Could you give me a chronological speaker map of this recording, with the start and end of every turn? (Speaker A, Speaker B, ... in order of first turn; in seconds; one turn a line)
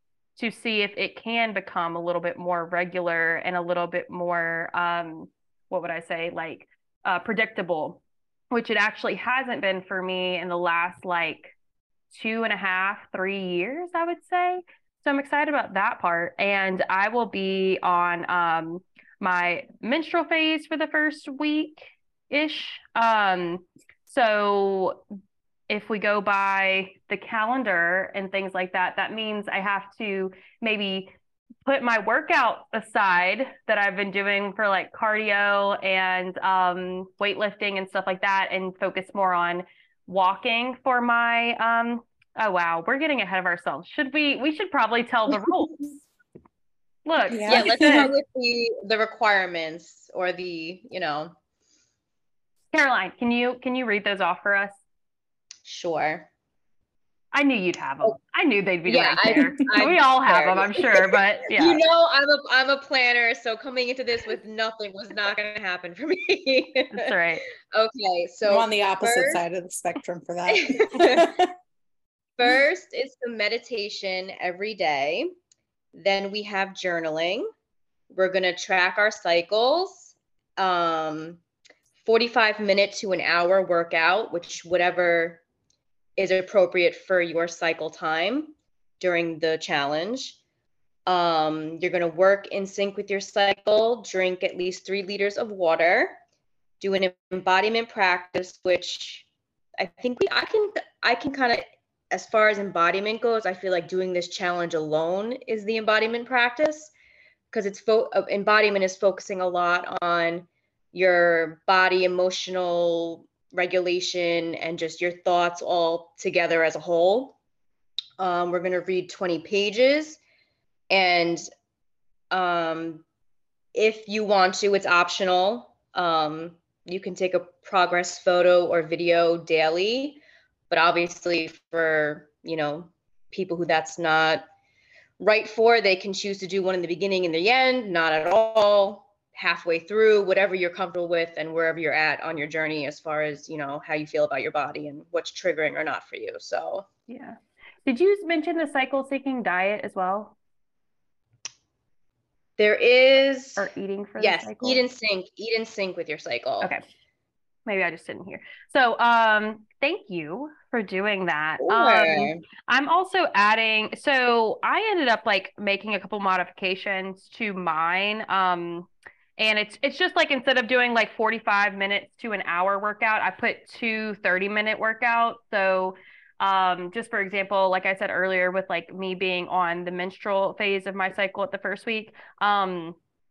Speaker A: 0.4-11.5
Speaker A: 12.1-25.0
Speaker A: 25.7-31.1
Speaker A: 31.7-45.9
Speaker A: 47.1-47.7
Speaker B: 47.3-48.1
Speaker C: 47.5-51.3
Speaker A: 52.7-54.8
Speaker C: 55.6-56.3
Speaker A: 57.3-61.8
Speaker C: 58.9-67.1
Speaker A: 66.9-67.5
Speaker C: 67.6-69.4
Speaker B: 68.5-71.5
Speaker C: 70.5-71.3
Speaker C: 72.4-75.3
Speaker C: 75.9-77.5
Speaker C: 78.1-81.4
Speaker C: 82.0-85.4
Speaker C: 86.2-90.4
Speaker C: 91.1-96.2
Speaker C: 96.8-99.3
Speaker C: 99.8-106.9
Speaker C: 107.5-117.4
Speaker C: 118.2-120.2
Speaker C: 120.9-121.5
Speaker C: 122.3-123.0
Speaker C: 123.8-134.5
Speaker C: 135.2-146.9
Speaker A: 147.1-150.4
Speaker C: 152.6-156.7
Speaker A: 153.6-154.8
Speaker A: 157.7-183.0
Speaker C: 161.6-162.4